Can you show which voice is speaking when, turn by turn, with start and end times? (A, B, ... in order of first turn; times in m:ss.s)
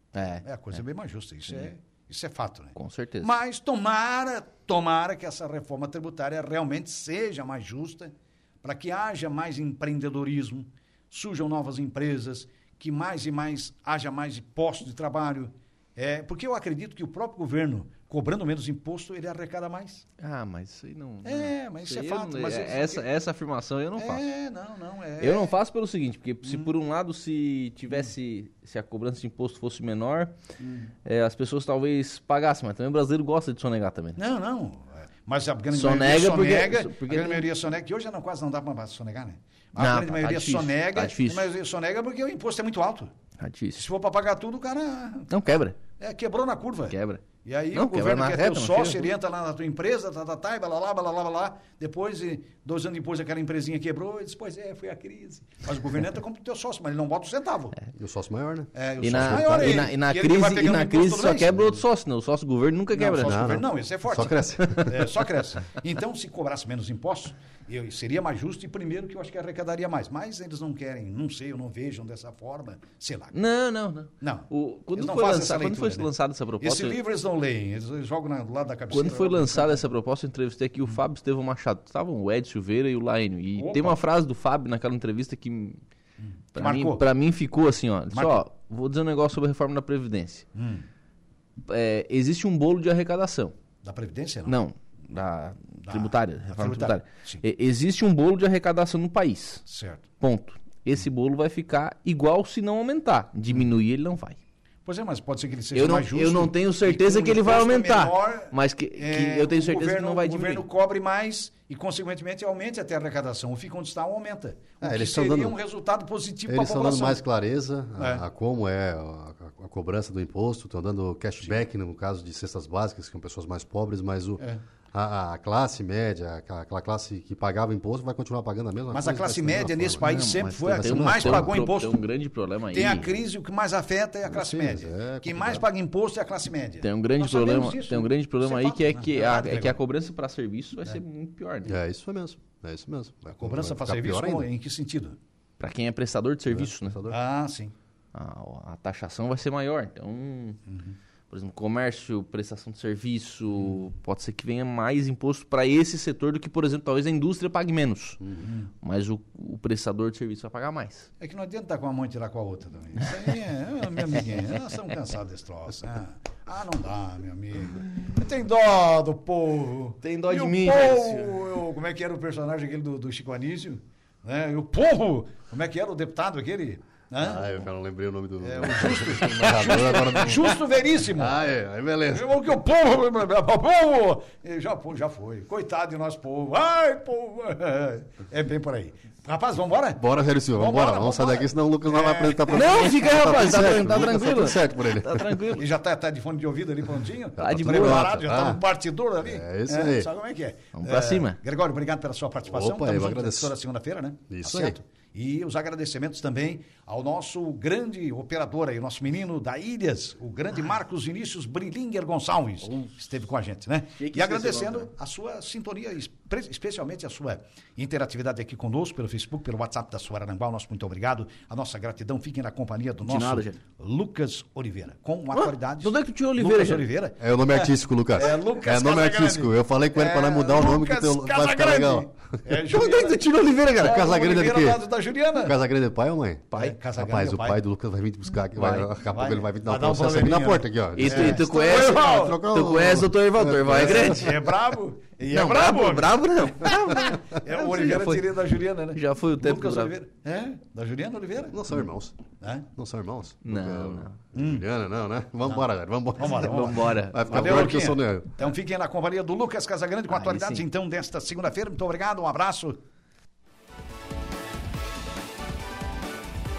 0:00.1-0:00.4 A
0:00.4-0:20.0 B
0:02.8-0:03.3 A
0:20.2-0:24.2 A
0:21.2-0:23.0 B
0:24.0-0:25.5 B
0:25.2-0:30.4 A
0:26.4-0:26.7 B
0:30.6-0:30.9 B
0:31.0-0:34.2 A
0:34.2-0:43.1 B
0:35.7-0:37.5 A
0:39.8-0:41.5 A
0:43.4-0:43.9 A
0:43.8-0:57.8 B
0:45.3-0:45.8 A
0:46.9-0:49.1 A
0:58.0-0:59.9 C
0:58.8-1:01.6 B
0:59.0-1:03.6 A
1:02.9-1:13.4 B
1:03.2-1:04.9 C
1:04.6-1:05.0 A
1:13.3-1:17.0 A
1:14.2-1:19.8 B
1:18.9-1:25.8 A
1:23.6-1:24.0 B
1:26.2-1:27.0 B
1:26.6-1:30.5 A
1:28.1-1:28.4 B
1:30.6-1:30.9 B
1:31.7-1:33.6 A
1:33.8-1:34.6 B
1:34.5-1:39.6 A
1:35.8-1:37.4 B
1:39.7-1:40.0 B
1:40.2-1:44.4 A
1:44.9-1:57.2 B
1:45.7-1:50.7 A
1:54.8-1:55.6 C
1:56.5-2:04.4 C
1:58.0-1:58.2 B
2:04.9-2:11.6 C
2:08.9-2:12.0 B
2:10.0-2:13.2 A
2:12.7-2:19.8 B
2:14.3-2:15.7 C
2:16.8-2:21.8 A
2:21.6-2:24.5 C
2:23.3-2:25.2 B
2:25.6-2:27.0 A
2:26.5-2:27.2 C
2:27.1-2:27.7 B
2:28.1-2:30.6 A
2:30.7-2:31.0 B
2:31.3-2:38.2 A
2:38.2-2:38.5 C
2:38.4-2:38.7 B
2:38.8-2:41.1 A
2:41.2-2:57.4 B
2:50.0-2:51.4 A
2:57.2-3:00.6 C
2:58.4-3:01.4 B
3:01.1-3:02.3 C
3:02.1-3:13.7 B
3:10.0-3:15.4 C
3:12.5-3:15.7 A
3:15.5-3:53.2 B
3:17.4-3:18.3 A
3:17.4-3:18.6 C
3:19.2-3:20.1 C
3:20.8-3:21.4 A
3:22.5-3:23.5 C
3:24.3-3:24.8 C
3:34.0-3:34.9 A
3:43.0-3:43.6 A
3:45.3-3:46.9 A
3:47.2-3:52.4 C
3:52.6-3:54.2 A
3:53.8-3:55.6 B
3:53.8-4:04.4 C
3:56.5-3:56.8 A
3:56.5-3:57.6 B
3:58.6-3:58.9 A
3:59.0-4:02.4 B
4:01.0-4:04.5 A
4:03.7-4:11.6 B
4:05.3-4:08.4 A
4:08.9-4:09.9 A
4:11.5-4:12.2 C
4:12.4-4:12.7 B
4:12.7-4:18.4 C
4:13.4-4:14.2 A
4:14.3-4:14.7 B
4:16.2-4:22.8 B
4:16.2-4:17.7 A
4:20.1-4:20.6 A